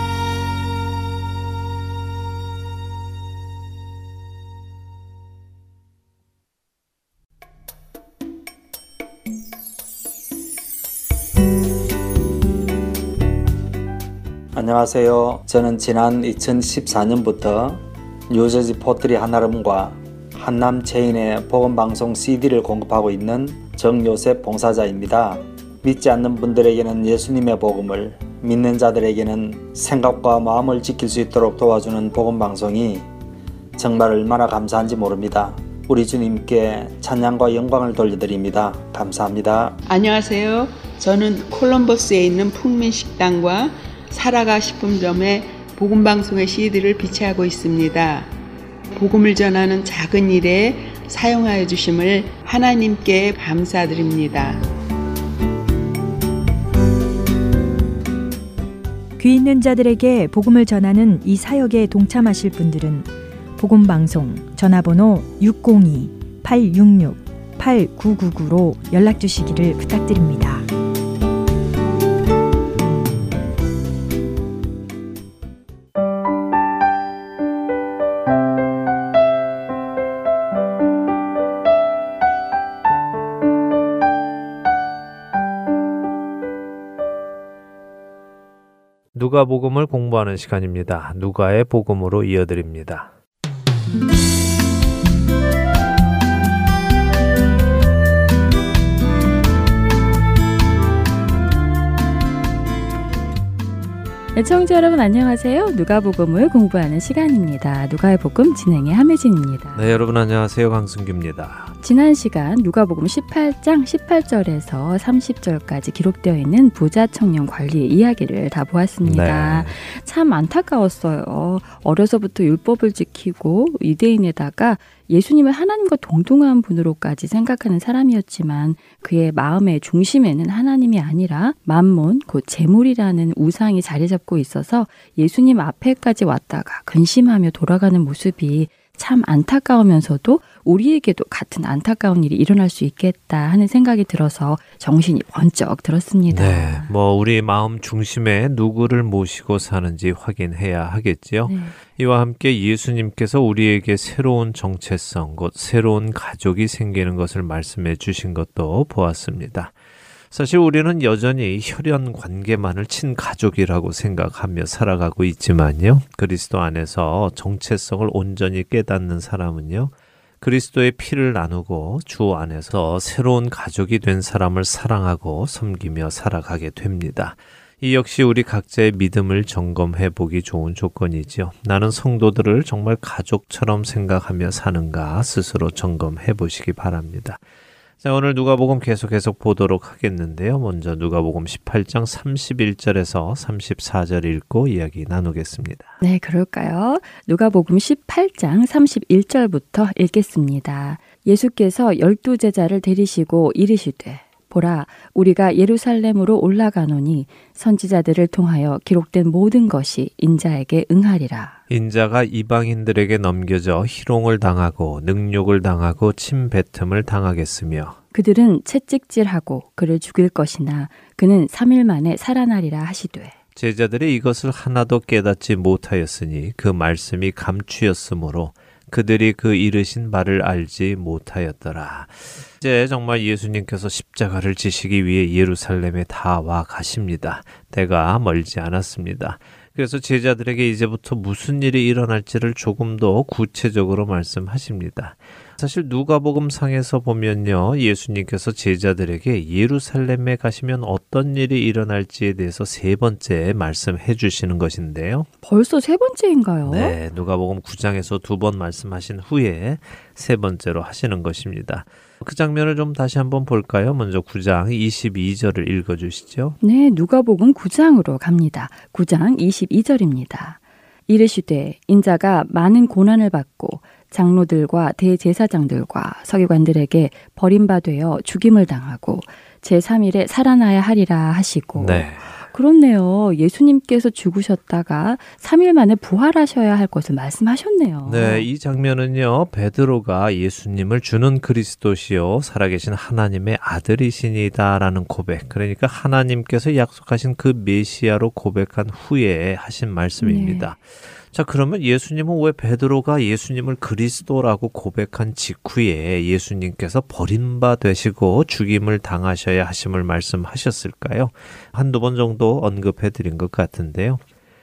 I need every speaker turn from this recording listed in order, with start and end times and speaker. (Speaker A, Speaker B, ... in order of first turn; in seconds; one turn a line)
Speaker A: 14.6-33.1
Speaker A: 33.8-39.8
Speaker B: 39.9-48.3
Speaker B: 48.9-54.6
Speaker C: 59.2-70.7
Speaker D: 89.1-93.1
Speaker E: 104.3-109.8
Speaker D: 109.8-111.7
Speaker E: 111.8-146.9
Speaker D: 119.0-119.8
Speaker D: 146.3-159.8
Speaker E: 151.5-151.8
Speaker D: 160.3-187.4
Speaker D: 188.0-195.9
Speaker E: 196.0-211.6
Speaker D: 211.7-218.0
Speaker E: 218.1-223.3
Speaker D: 223.6-255.3
Speaker E: 255.4-256.9
Speaker D: 256.6-266.6
Speaker E: 266.6-288.5
Speaker D: 281.8-282.4
Speaker D: 288.1-314.2
Speaker E: 300.2-300.7